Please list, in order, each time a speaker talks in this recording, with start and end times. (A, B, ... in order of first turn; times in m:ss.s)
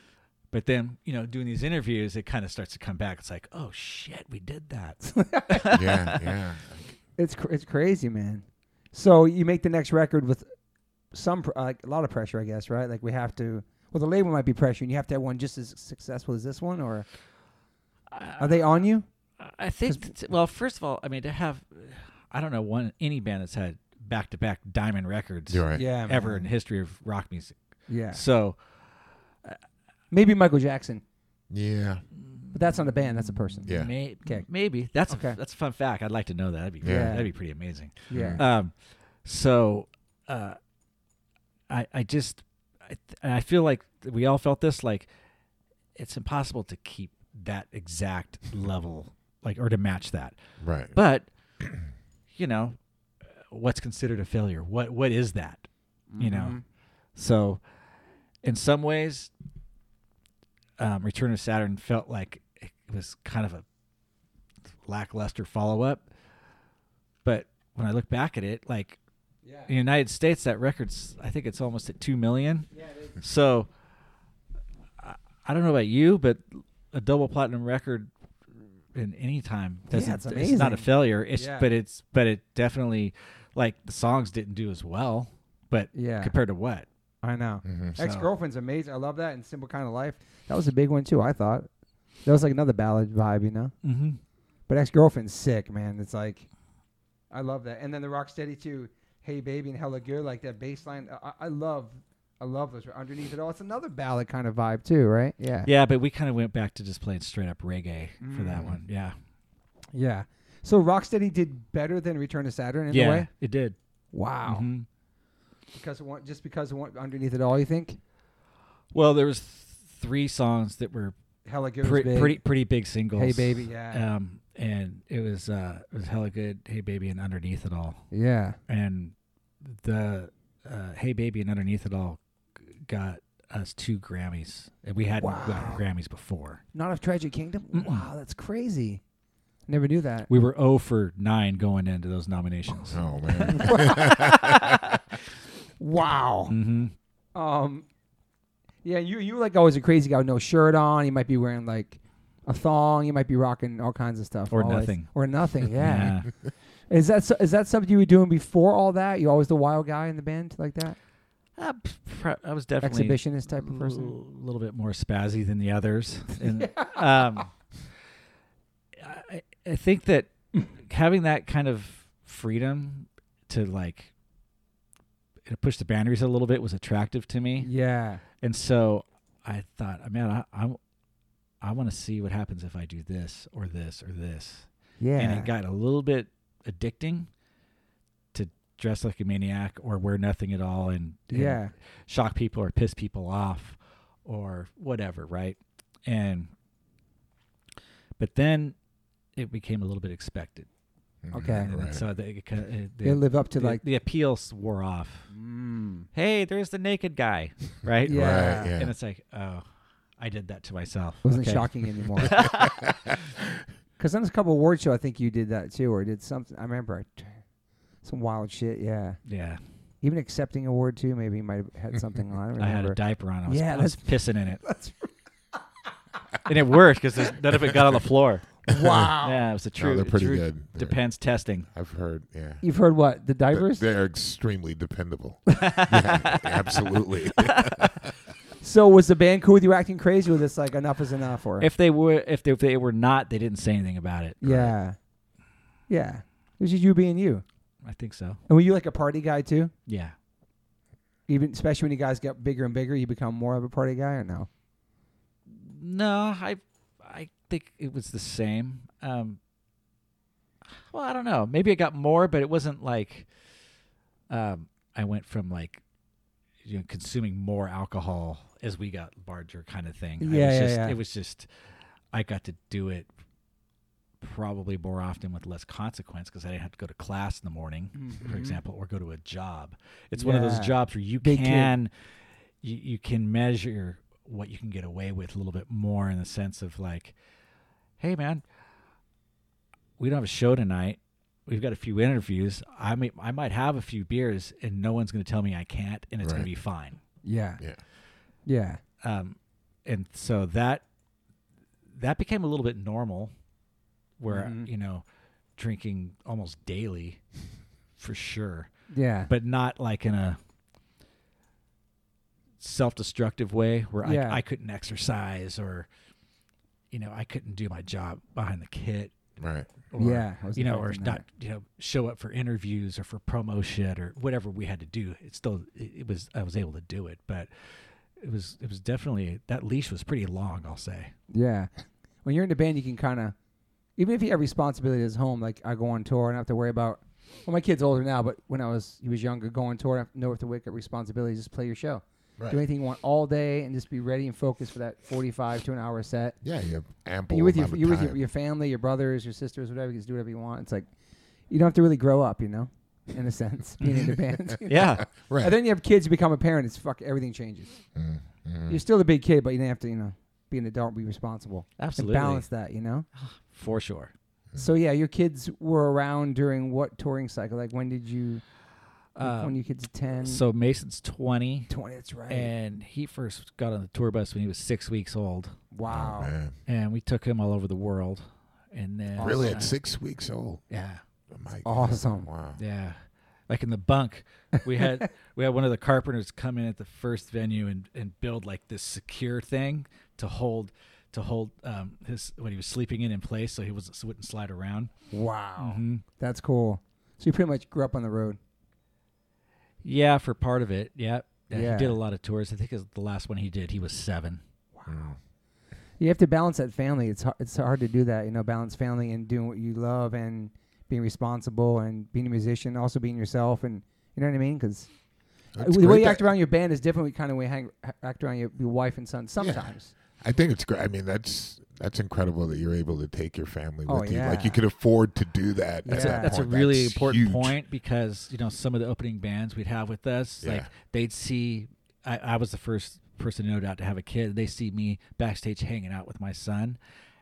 0:00.5-0:06.1 A
0:05.0-0:05.8 B
0:05.7-0:06.9 C
0:07.2-0:10.5 B
0:11.1-0:17.1 B
0:18.1-0:18.7 A
0:18.4-0:19.1 B
0:19.4-0:27.6 A
0:25.5-0:25.9 C
0:25.7-0:26.5 B
0:27.9-0:28.2 B
0:28.1-0:28.6 A
0:30.1-0:31.0 B
0:31.5-0:32.0 C
0:32.2-0:32.8 A
0:32.5-0:34.4 B
0:33.5-0:38.7 A
0:33.7-0:33.9 C
0:35.1-0:35.4 B
0:36.8-0:37.2 C
0:36.8-0:37.3 B
0:38.1-0:38.4 B
0:38.1-0:38.4 C
0:39.2-0:40.6 A
0:41.7-0:45.1 A
0:46.0-0:50.4 A
0:50.6-0:50.9 C
0:50.9-0:51.3 A
0:52.3-0:52.8 A
0:53.5-0:55.7 A
0:56.1-0:56.6 B
0:56.2-0:56.6 A
0:57.2-0:57.6 A
0:58.4-0:59.3 A
1:00.8-1:03.6 A
1:04.9-1:06.0 A
1:07.2-1:09.0 A
1:09.4-1:09.7 B
1:09.7-1:13.7 A
1:12.7-1:13.2 B
1:15.0-1:18.1 A
1:18.9-1:26.9 A
1:19.9-1:21.7 B
1:25.9-1:26.3 B
1:27.2-1:31.7 B
1:27.6-1:28.0 C
1:28.0-1:28.3 A
1:32.2-1:33.7 B
1:33.8-1:34.2 A
1:34.7-1:36.5 B
1:37.3-1:45.7 B
1:45.6-1:49.2 A
1:48.2-1:48.7 B
1:48.5-1:48.8 C
1:49.9-1:53.3 B
1:52.9-1:53.8 A
1:54.1-1:54.7 B
1:54.5-1:54.9 A
1:55.7-1:58.0 B
1:58.9-2:01.1 A
2:01.5-2:02.4 B
2:01.8-2:08.0 A
2:03.2-2:04.0 B
2:08.1-2:08.6 B
2:08.7-2:16.6 A
2:15.2-2:15.8 B
2:16.7-2:19.0 B
2:17.7-2:18.1 A
2:19.7-2:20.3 B
2:20.3-2:25.0 A
2:22.9-2:24.8 C
2:23.3-2:24.7 B
2:25.8-2:26.5 B
2:26.5-2:26.9 A
2:27.4-2:27.9 B
2:28.8-2:36.2 B
2:34.5-2:35.1 A
2:35.7-2:36.3 A
2:36.9-2:41.0 B
2:41.6-2:47.5 A
2:42.8-2:44.2 B
2:46.4-2:47.4 B
2:49.0-2:54.1 A
2:55.5-2:57.7 A
2:57.6-2:58.2 B
2:58.4-3:00.8 A
3:01.6-3:07.3 A
3:05.0-3:05.5 B
3:08.3-3:16.5 A
3:11.3-3:11.7 B
3:18.2-3:18.8 A
3:19.4-3:20.7 A
3:21.2-3:22.0 C
3:21.3-3:21.7 B
3:21.7-3:25.3 A
3:23.0-3:23.8 B
3:25.3-3:26.1 B
3:26.1-3:29.6 A
3:28.0-3:28.8 B
3:28.1-3:28.9 C
3:30.2-3:33.0 A
3:31.2-3:32.4 B
3:32.3-3:33.2 C
3:34.0-3:37.4 B
3:38.0-3:39.2 B
3:39.3-3:39.6 A
3:40.0-3:44.1 B
3:42.6-3:44.6 A
3:44.6-3:45.1 B
3:46.4-3:48.5 A
3:48.7-3:49.4 B
3:48.7-3:49.2 C
3:49.2-3:51.7 A
3:49.8-3:51.0 C
3:51.7-3:52.6 C
3:52.6-3:53.8 B
3:53.5-3:58.1 C
3:55.5-3:57.9 A
3:58.6-4:01.7 B
4:01.6-4:04.4 A
4:04.4-4:05.0 B
4:04.4-4:04.7 C
4:05.9-4:07.4 B
4:07.8-4:08.4 A
4:08.5-4:09.7 B
4:09.9-4:10.1 A
4:11.3-4:14.5 B
4:15.5-4:19.4 A
4:20.8-4:23.3 A
4:24.3-4:25.8 A
4:26.6-4:31.5 A
4:30.2-4:31.0 B
4:32.1-4:33.1 A
4:34.2-4:41.9 A
4:38.0-4:38.6 B
4:40.2-4:41.7 B
4:42.6-4:47.1 A
4:48.0-4:48.4 A
4:50.0-4:57.0 A
4:56.2-4:56.5 C
4:57.2-4:57.6 B
4:58.5-4:58.8 B
4:59.0-5:00.8 A
5:01.9-5:03.3 A
5:04.2-5:05.0 A
5:04.3-5:04.7 B
5:05.6-5:07.2 A
5:08.0-5:08.7 A
5:08.9-5:09.3 B
5:09.3-5:10.4 A
5:12.6-5:15.9 A
5:14.0-5:14.4 B
5:16.9-5:19.2 A
5:19.4-5:19.8 C
5:19.9-5:27.5 A
5:20.0-5:21.2 B
5:28.2-5:31.1 A
5:31.3-5:31.7 B
5:32.2-5:33.4 B
5:34.0-5:46.4 B
5:46.4-5:48.2 C
5:47.3-5:50.9 B
5:51.5-5:57.8 B
5:53.8-5:55.6 C
5:54.7-5:55.1 A
5:58.0-5:58.8 C
5:58.7-6:03.1 B
6:01.8-6:02.4 A
6:03.2-6:04.1 A
6:04.6-6:08.4 B
6:09.2-6:09.6 A
6:09.2-6:10.4 B
6:10.2-6:11.7 A
6:11.7-6:12.5 B
6:12.3-6:15.6 A
6:15.7-6:16.3 B
6:15.9-6:16.6 C
6:16.7-6:19.7 A
6:19.2-6:19.6 B
6:19.2-6:20.6 C
6:20.7-6:21.0 A
6:21.3-6:22.6 C
6:21.6-6:22.3 B
6:22.6-6:34.9 A
6:24.8-6:25.0 B
6:35.1-6:38.4 B
6:35.6-6:36.0 A
6:39.8-6:44.4 A
6:41.5-6:42.0 B
6:44.8-6:45.1 B
6:44.9-6:45.2 C
6:46.0-6:54.9 B
6:55.5-6:56.3 C
6:55.6-6:59.9 B
6:59.4-7:07.6 C
7:03.9-7:04.6 B
7:05.8-7:06.4 B
7:05.9-7:16.8 A
7:10.4-7:10.7 C